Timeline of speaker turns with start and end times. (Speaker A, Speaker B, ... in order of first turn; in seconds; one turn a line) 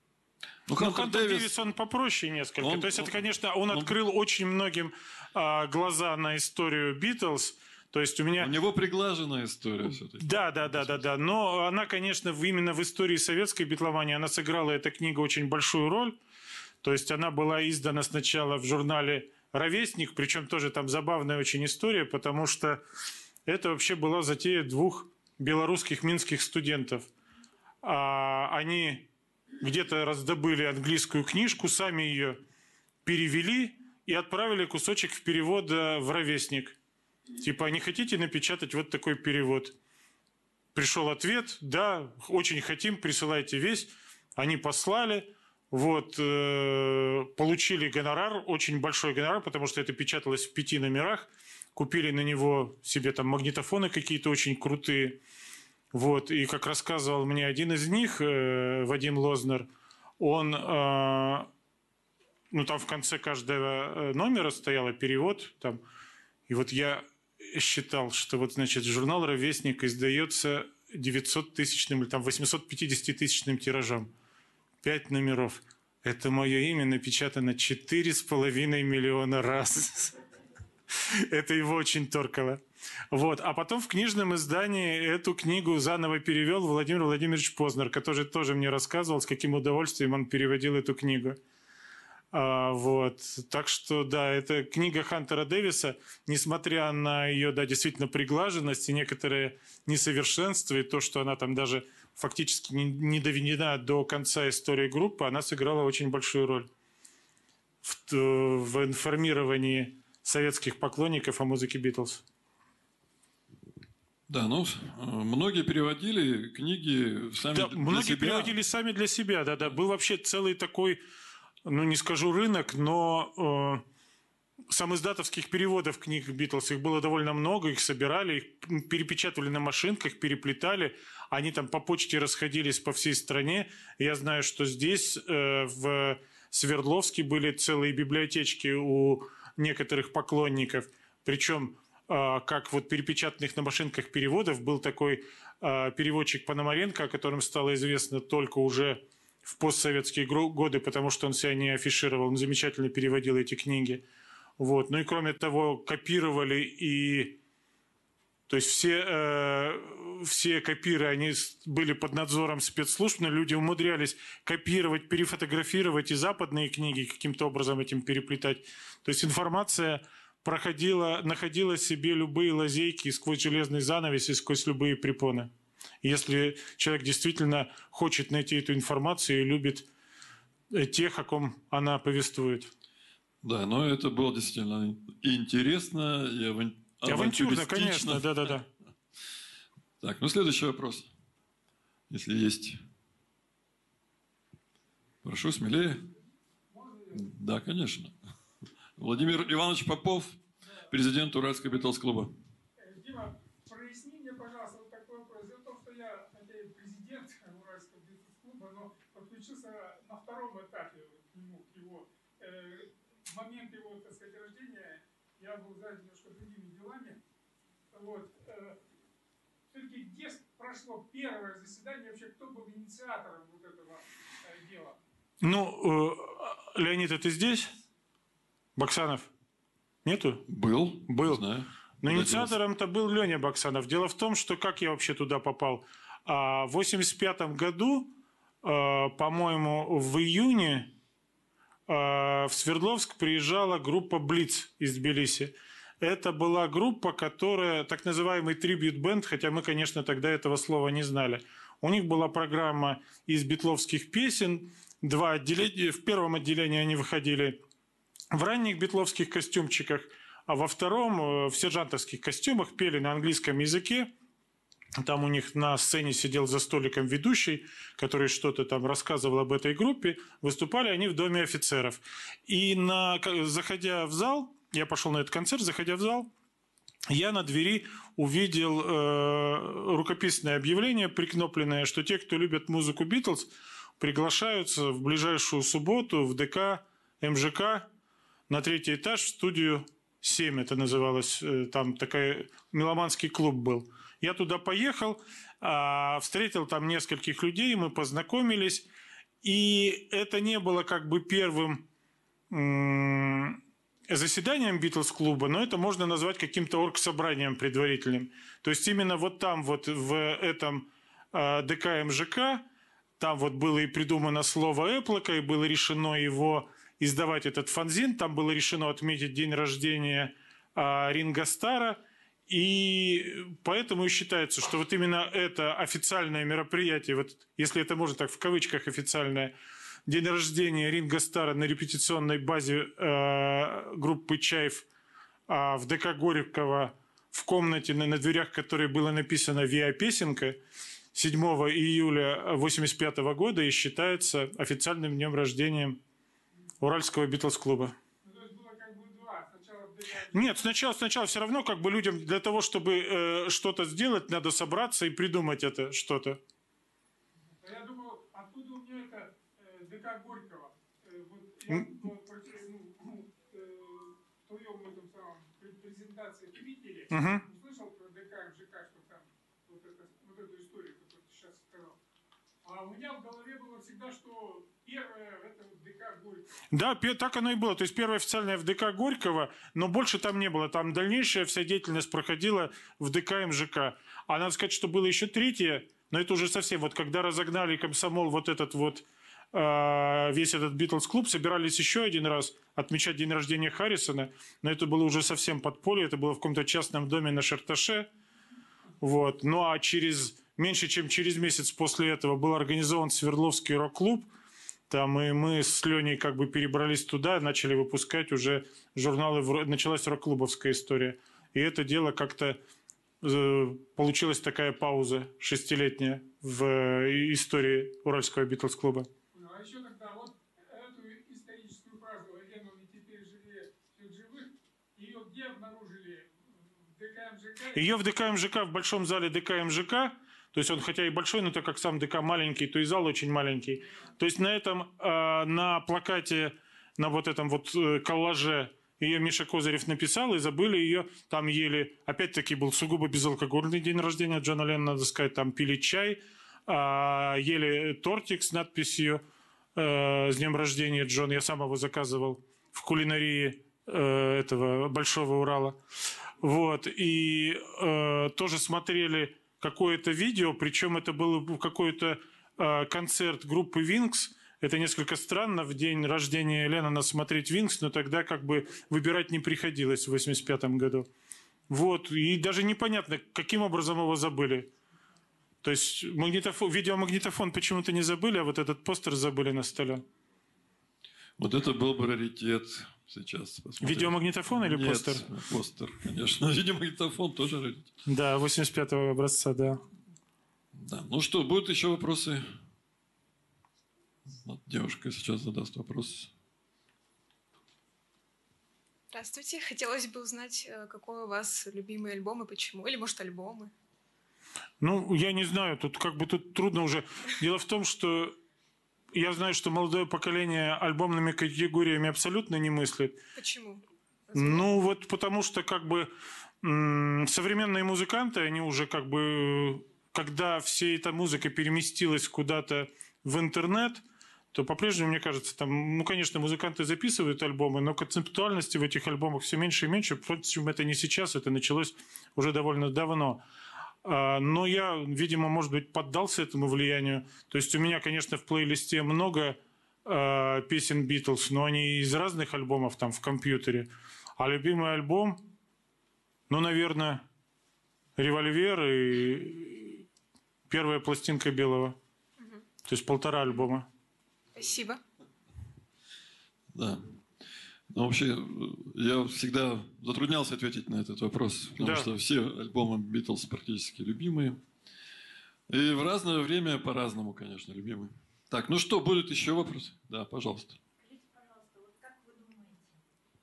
Speaker A: 0.7-1.5
Speaker B: 0.8-8.5
Speaker A: 2.6-3.1
Speaker A: 8.4-10.9
Speaker B: 10.2-16.2
Speaker B: 16.8-22.8
Speaker B: 23.4-27.1
Speaker B: 27.8-29.1
Speaker B: 29.6-32.4
Speaker B: 33.0-36.8
Speaker B: 37.4-39.7
Speaker B: 40.7-55.2
Speaker B: 55.9-61.5
Speaker B: 62.5-65.8
Speaker B: 66.5-74.1
Speaker B: 74.8-80.1
Speaker B: 81.1-82.6
Speaker B: 83.1-91.4
Speaker B: 92.3-106.7
Speaker B: 107.8-112.2
Speaker A: 114.3-118.6
Speaker B: 117.5-121.0
Speaker B: 121.7-123.8
Speaker B: 124.7-154.0
Speaker B: 154.6-157.4
Speaker B: 158.5-175.5
Speaker B: 176.0-179.8
Speaker B: 180.7-182.7
Speaker A: 183.4-188.6
Speaker B: 187.1-188.7
Speaker A: 190.0-191.1
Speaker A: 192.1-192.8
Speaker A: 195.2-196.1
Speaker C: 196.7-197.2
Speaker A: 197.1-198.2
Speaker A: 199.0-202.3
Speaker C: 202.8-217.2
Speaker C: 217.9-218.8
Speaker C: 219.7-225.0
Speaker B: 225.4-227.7
Speaker B: 228.8-229.3
Speaker B: 230.0-230.4
Speaker A: 230.5-232.6
Speaker B: 231.1-231.4
Speaker B: 232.0-240.9
Speaker B: 241.9-257.6
Speaker B: 258.3-264.1
Speaker B: 265.0-276.3
Speaker B: 277.1-287.9
Speaker B: 288.5-298.9
Speaker B: 299.4-301.9
Speaker B: 302.5-312.6
Speaker B: 313.2-329.5
Speaker B: 330.1-334.9
Speaker B: 335.5-340.6
Speaker B: 341.1-346.0
Speaker B: 346.8-347.9
Speaker C: 348.2-350.5
Speaker B: 350.3-356.4
Speaker C: 357.6-371.9
Speaker B: 367.1-367.4
Speaker C: 372.6-376.5
Speaker B: 376.7-398.1
Speaker B: 399.0-404.3
Speaker B: 404.9-412.6
Speaker B: 413.2-419.1
Speaker C: 419.3-426.3
Speaker C: 427.0-427.8
Speaker B: 427.7-449.2
Speaker B: 449.8-455.8
Speaker B: 456.4-471.1
Speaker B: 471.7-474.7
Speaker B: 475.6-480.0
Speaker A: 481.4-487.9
Speaker B: 483.8-485.2
Speaker B: 488.1-489.8
Speaker A: 490.7-492.5
Speaker A: 494.4-496.3
Speaker D: 499.1-503.7
Speaker B: 504.8-508.4
Speaker B: 509.1-513.2
Speaker D: 513.4-514.6
Speaker B: 514.3-516.1
Speaker B: 516.6-524.0
Speaker B: 524.5-533.4
Speaker B: 534.0-545.4
Speaker B: 546.5-547.2
Speaker B: 548.2-550.0
Speaker B: 550.7-552.0
Speaker D: 552.4-552.6
Speaker B: 552.9-553.9
Speaker D: 554.5-555.0
Speaker A: 556.7-557.2
Speaker A: 557.9-564.6
Speaker B: 561.8-562.1
Speaker A: 565.7-570.8
Speaker E: 571.0-572.9